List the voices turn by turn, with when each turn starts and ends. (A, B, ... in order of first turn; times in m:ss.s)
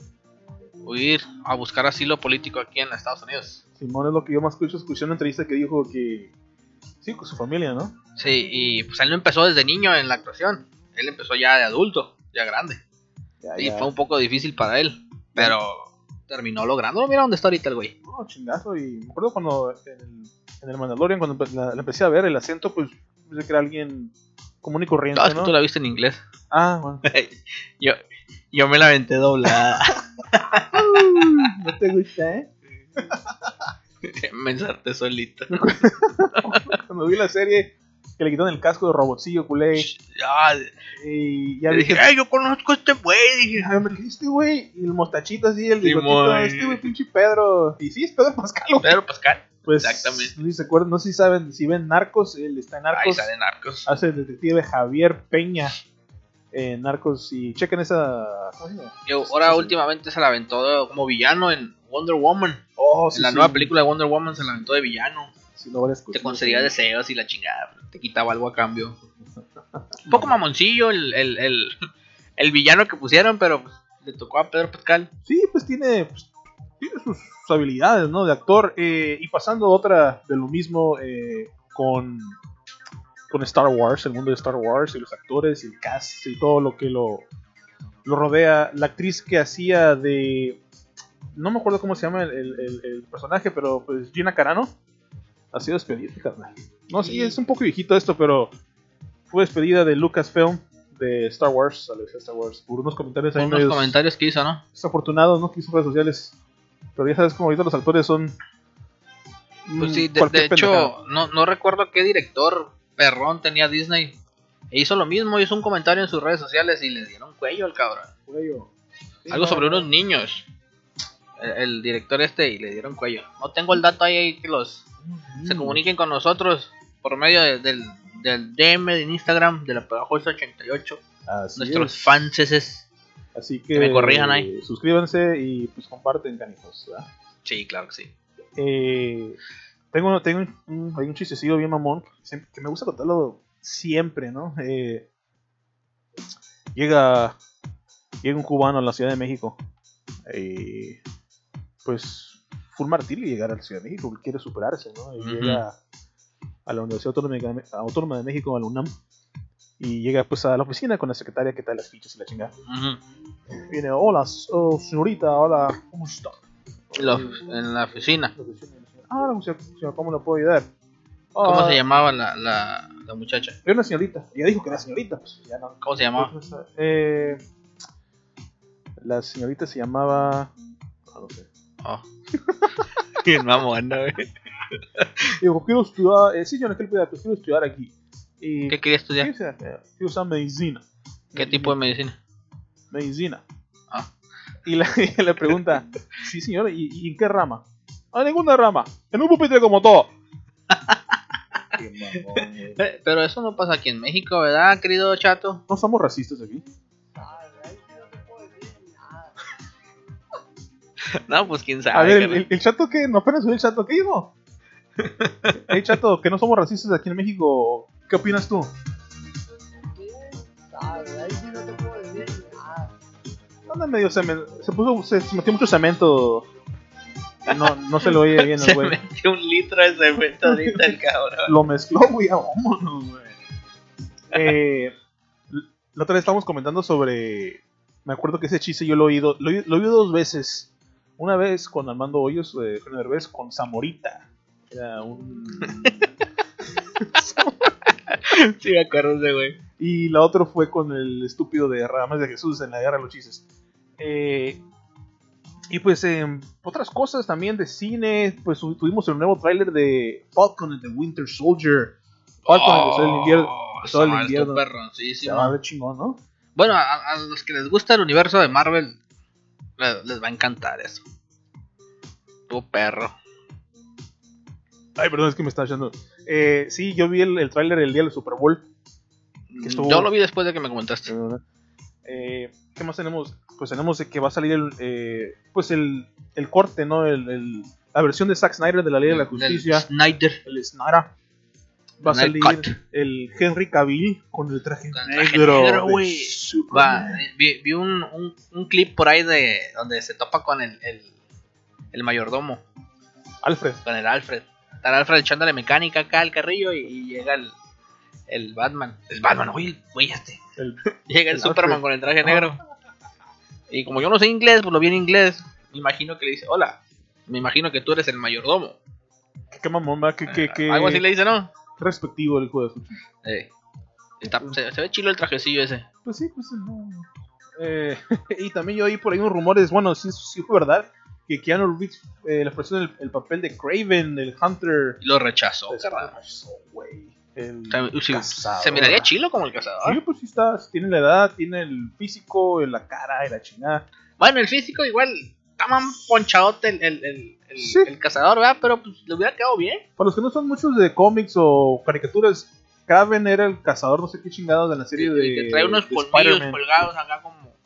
0:00.8-0:03.6 A
0:03.8-0:06.3 B
0:07.0-0:08.0 B
0:08.2-0:12.8 A
0:13.4-0:13.9 B
0:13.6-0:17.9 A
0:18.0-0:25.5 B
0:25.1-0:26.2 A
0:26.5-0:27.0 B
0:27.0-0:28.0 A
0:28.5-0:31.4 A
0:30.7-0:33.1 B
0:34.0-0:35.7 A
0:35.5-0:39.9 B
0:36.4-0:36.7 A
0:39.7-0:40.7 A
0:40.9-0:42.0 B
0:41.7-0:43.7 A
0:43.5-0:48.9 B
0:45.8-0:46.8 A
0:48.8-0:50.3 A
0:49.6-0:53.3 B
0:52.9-0:53.9 A
0:53.8-0:55.8 B
0:56.5-0:59.7 B
0:59.0-1:02.6 A
1:02.8-1:03.7 B
1:03.1-1:05.3 A
1:05.5-1:06.7 B
1:06.1-1:09.0 A
1:10.0-1:10.4 B
1:10.1-1:11.7 A
1:12.4-1:15.1 A
1:15.2-1:16.3 B
1:16.8-1:22.4 B
1:23.3-1:27.2 B
1:28.0-1:30.6 B
1:31.3-1:34.7 B
1:35.5-1:38.5 B
1:37.0-1:37.3 A
1:39.3-1:44.0 B
1:43.3-1:44.6 A
1:44.7-1:46.3 B
1:47.0-1:48.3 B
1:49.7-1:50.9 B
1:49.8-1:54.2 A
1:54.7-1:58.1 A
1:58.3-1:58.7 B
1:59.2-1:59.9 B
1:59.3-2:00.4 A
2:01.4-2:04.8 A
2:05.0-2:05.8 B
2:05.4-2:11.0 A
2:11.3-2:12.3 B
2:11.6-2:12.8 A
2:13.3-2:17.1 B
2:13.7-2:14.5 A
2:17.4-2:18.1 A
2:18.6-2:19.4 B
2:19.9-2:25.1 B
2:26.7-2:27.4 B
2:28.2-2:29.6 B
2:30.2-2:31.0 B
2:31.8-2:35.8 B
2:35.2-2:35.6 A
2:36.6-2:38.9 B
2:39.8-2:42.5 B
2:42.6-2:43.0 A
2:43.6-2:47.4 B
2:46.9-2:48.3 A
2:48.3-2:50.7 B
2:51.3-2:51.8 B
2:51.4-2:53.6 A
2:53.6-2:57.4 B
2:55.8-2:56.3 A
2:59.0-3:00.5 B
3:01.1-3:01.5 B
3:02.4-3:02.8 B
3:03.2-3:04.3 A
3:05.4-3:11.8 B
3:08.7-3:09.3 A
3:11.4-3:12.2 A
3:12.9-3:13.4 B
3:14.6-3:20.1 B
3:20.7-3:21.0 A
3:21.7-3:22.8 B
3:22.2-3:25.6 A
3:25.7-3:26.6 B
3:27.1-3:29.4 C
3:31.1-3:32.4 A
3:31.9-3:34.3 B
3:35.0-3:35.7 A
3:35.6-3:38.7 B
3:40.0-3:42.9 C
3:43.7-3:46.5 B
3:47.5-3:49.0 B
3:47.5-3:51.5 A
3:50.4-3:53.3 B
3:54.3-3:54.9 B
3:55.5-4:05.9 B
4:07.0-4:07.7 B
4:08.1-4:09.6 A
4:09.8-4:13.4 B
4:14.0-4:14.6 B
4:15.7-4:21.9 B
4:22.4-4:24.6 B
4:22.4-4:25.6 A
4:25.2-4:26.2 B
4:26.5-4:29.0 A
4:29.8-4:31.0 A
4:32.5-4:33.2 A
4:35.0-4:38.6 B
4:39.5-4:41.1 A
4:39.6-4:40.1 B
4:41.0-4:41.4 B
4:42.0-4:49.9 B
4:49.0-4:50.4 A
4:50.4-4:51.1 B
4:52.0-4:57.2 B
4:52.0-4:52.8 A
4:54.9-5:01.1 A
5:01.9-5:02.6 A
5:03.4-5:03.8 B
5:03.8-5:07.5 A
5:08.3-5:10.4 A
5:10.6-5:12.5 B
5:11.0-5:12.6 A
5:13.7-5:18.8 A
5:19.5-5:21.0 B
5:20.3-5:21.5 A
5:21.8-5:23.0 B
5:23.2-5:23.5 A
5:24.2-5:25.8 A
5:24.2-5:24.6 B
5:26.0-5:35.0 B
5:35.0-5:36.1 A
5:35.7-5:39.1 B
5:37.7-5:40.0 A
5:39.8-5:43.8 B
5:44.2-5:49.8 A
5:47.6-5:47.9 B
5:50.0-5:56.9 B
5:55.0-5:57.6 A